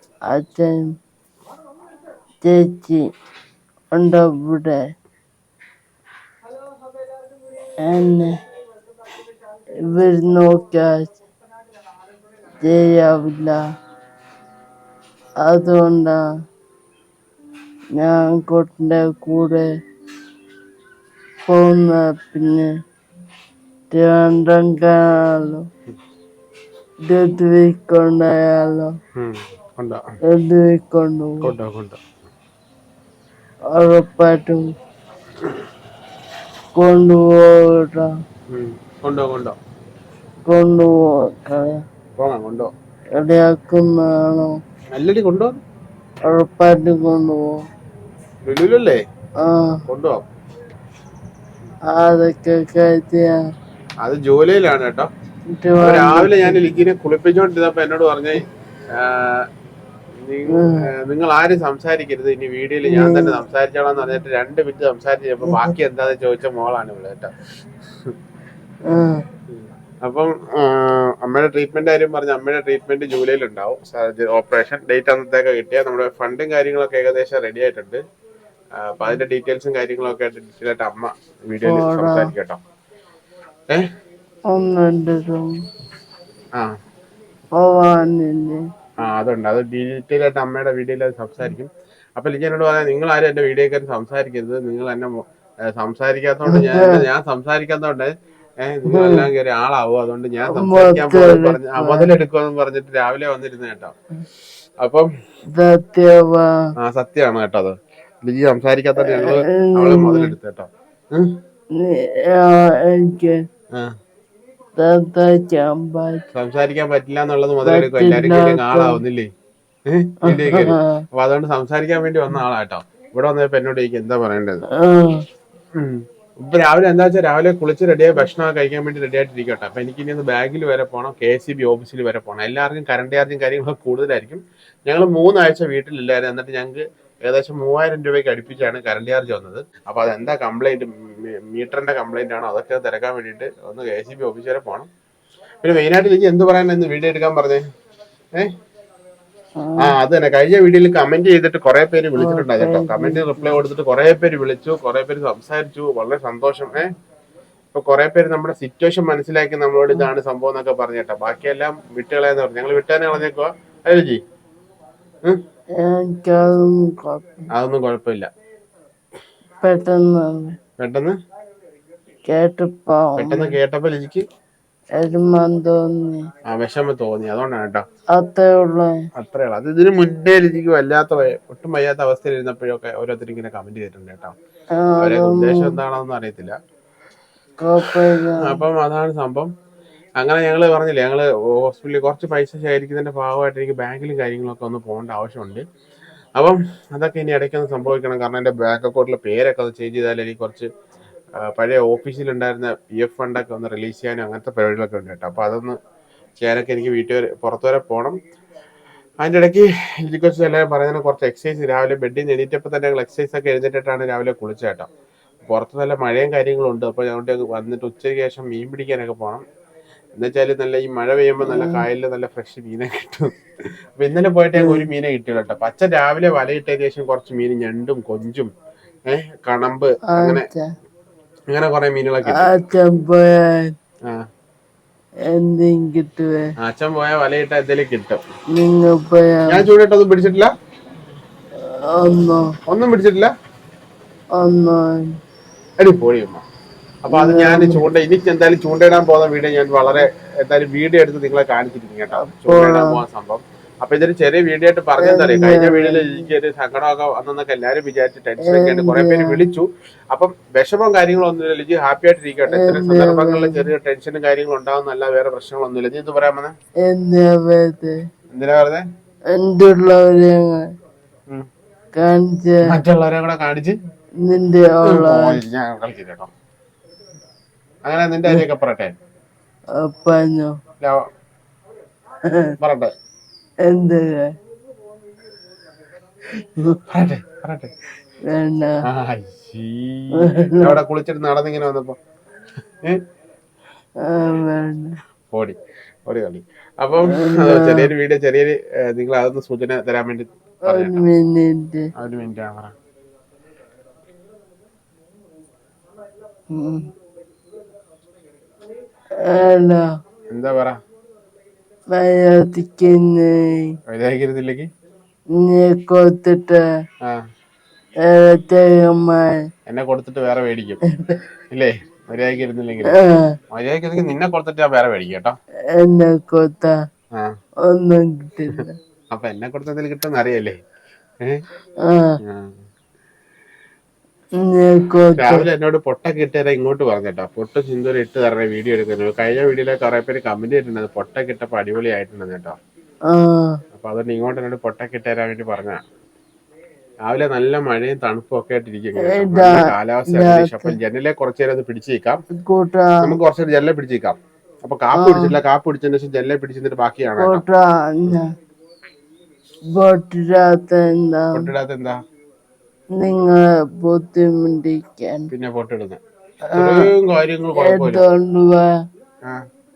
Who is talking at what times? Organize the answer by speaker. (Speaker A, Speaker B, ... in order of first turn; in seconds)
Speaker A: 0.3-0.9, 2.4-3.0, 3.9-4.8, 7.8-8.3, 9.9-11.1, 12.6-13.6, 15.4-16.2, 18.0-19.7, 21.5-22.7, 23.9-25.6, 27.1-28.9, 30.3-31.5, 33.7-34.7, 36.8-38.1, 40.5-41.7, 43.2-44.5, 46.3-47.5, 49.4-49.8, 51.9-53.4, 55.6-56.6, 62.9-63.4, 65.4-65.7, 68.9-69.2, 81.6-82.3, 84.5-85.5, 87.6-88.6, 96.5-97.0, 98.9-99.3, 100.5-102.1, 105.5-106.5, 109.0-110.3, 111.8-113.4, 114.8-116.2, 117.6-119.0, 120.3-120.9, 124.8-125.1, 149.6-149.9, 152.2-153.6, 165.8-167.4, 169.6-170.5, 172.3-173.5, 175.0-176.2, 178.2-178.9, 184.8-185.8, 187.6-188.6, 221.4-221.8, 224.6-224.9, 230.1-230.7, 232.2-233.7, 235.3-236.4, 238.6-239.7, 242.0-242.4, 244.4-245.1, 247.1-247.8, 252.2-253.0, 255.0-256.2, 258.4-259.4, 262.5-263.7, 266.9-267.9, 269.3-270.6, 272.0-272.6, 274.2-275.4, 279.8-280.5, 283.7-284.3, 288.3-288.7, 290.2-290.8, 294.1-294.9, 297.1-297.9, 300.7-301.8, 306.5-306.8, 309.3-309.8, 311.9-313.7, 315.4-316.6, 318.1-319.4, 322.9-323.3, 325.8-326.7, 327.7-328.8, 334.4-335.4, 343.1-343.5, 349.0-350.8, 352.5-353.1, 354.9-355.4, 357.2-358.3, 359.8-361.5, 363.0-365.3, 366.5-366.9, 367.6-368.7
Speaker B: 29.2-30.0, 31.4-32.0, 38.5-39.6, 42.2-42.7, 45.0-45.5, 48.4-49.0, 49.9-50.2, 54.0-55.1, 55.8-58.4, 59.0-59.5, 60.2-67.3, 69.5-78.0, 78.8-82.6, 89.0-95.2, 95.7-104.0, 104.8-105.1, 106.8-111.3, 116.3-119.3, 119.9-124.6, 125.8-144.9, 145.6-147.6, 149.8-156.9, 157.7-164.2, 167.5-168.3, 170.8-171.2, 173.2-174.2, 176.5-177.8, 179.2-184.3, 185.0-186.6, 187.8-189.5, 190.2-195.6, 196.4-200.7, 201.4-205.8, 206.4-208.2, 209.2-214.9, 215.5-219.4, 220.2-223.3, 224.0-228.5, 229.1-230.4, 231.5-232.6, 236.6-238.2, 239.5-240.5, 242.7-243.3, 245.8-246.4, 247.1-266.6, 268.3-268.8, 272.7-273.8, 274.8-276.3, 277.9-278.9, 282.6-282.9, 286.9-287.7, 288.9-292.0, 295.3-301.1, 302.0-302.7, 310.3-310.8, 313.9-314.7, 319.7-320.8, 321.5-323.0, 323.5-325.4, 328.5-330.6, 332.2-332.5, 335.2-342.6, 343.7-345.8, 347.1-352.2, 353.0-357.4, 361.3-362.0, 365.3-366.0, 366.5-368.0